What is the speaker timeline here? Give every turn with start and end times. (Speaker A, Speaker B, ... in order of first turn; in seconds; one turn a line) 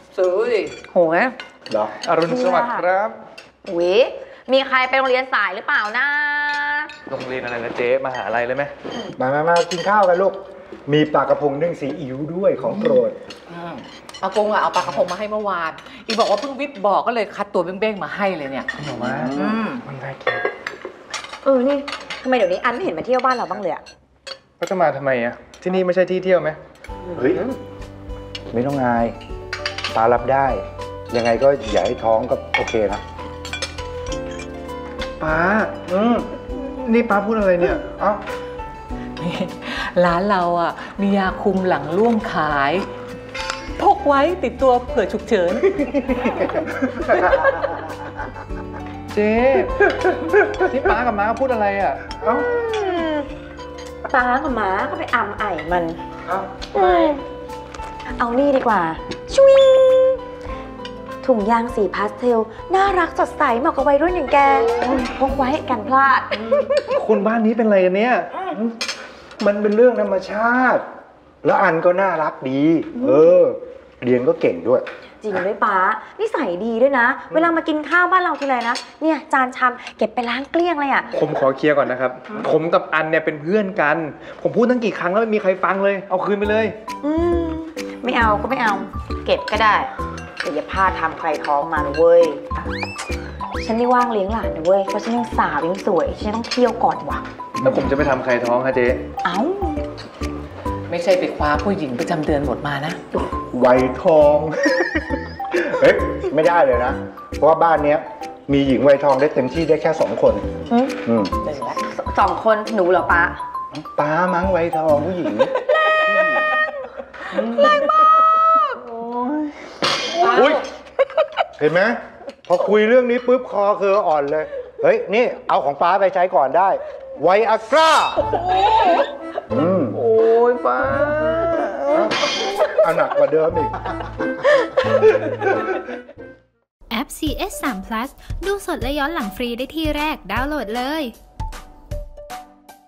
Speaker A: 0.1-0.8
Speaker B: 0.9-1.4
Speaker C: 1.7-1.9
Speaker D: 2.0-3.2
Speaker B: 2.2-2.9
Speaker B: 3.6-6.9
Speaker D: 7.1-8.7
Speaker C: 9.2-13.2
Speaker A: 12.9-18.7
Speaker D: 18.8-20.4
Speaker A: 19.3-19.8
Speaker B: 21.4-23.8
Speaker D: 24.6-26.6
Speaker C: 27.2-27.4
Speaker C: 28.5-29.1
Speaker C: 29.9-33.0
Speaker D: 35.2-35.9
Speaker C: 35.9-36.3
Speaker D: 36.5-37.9
Speaker A: 39.2-42.9
Speaker A: 43.8-47.8
Speaker D: 49.1-50.0
Speaker D: 50.5-52.0
Speaker C: 52.1-52.5
Speaker B: 52.5-53.3
Speaker B: 54.0-56.0
Speaker B: 56.7-57.2
Speaker B: 58.2-60.2
Speaker B: 61.2-66.9
Speaker D: 66.9-68.3
Speaker C: 69.4-70.8
Speaker C: 71.4-74.8
Speaker B: 75.2-81.1
Speaker D: 81.1-86.8
Speaker B: 87.0-89.9
Speaker B: 90.4-92.7
Speaker B: 93.6-97.2
Speaker D: 97.6-99.0
Speaker B: 99.2-99.8
Speaker A: 100.9-103.0
Speaker C: 103.3-110.5
Speaker B: 110.7-110.9
Speaker C: 111.0-111.3
Speaker A: 111.4-111.8
Speaker B: 111.8-113.4
Speaker C: 113.7-115.5
Speaker A: 116.1-116.4
Speaker C: 117.3-117.7
Speaker A: 120.2-120.6
Speaker C: 120.2-120.6
Speaker C: 121.5-128.4
Speaker C: 129.5-130.1
Speaker A: 130.2-131.8
Speaker C: 131.9-134.4
Speaker E: 136.9-141.1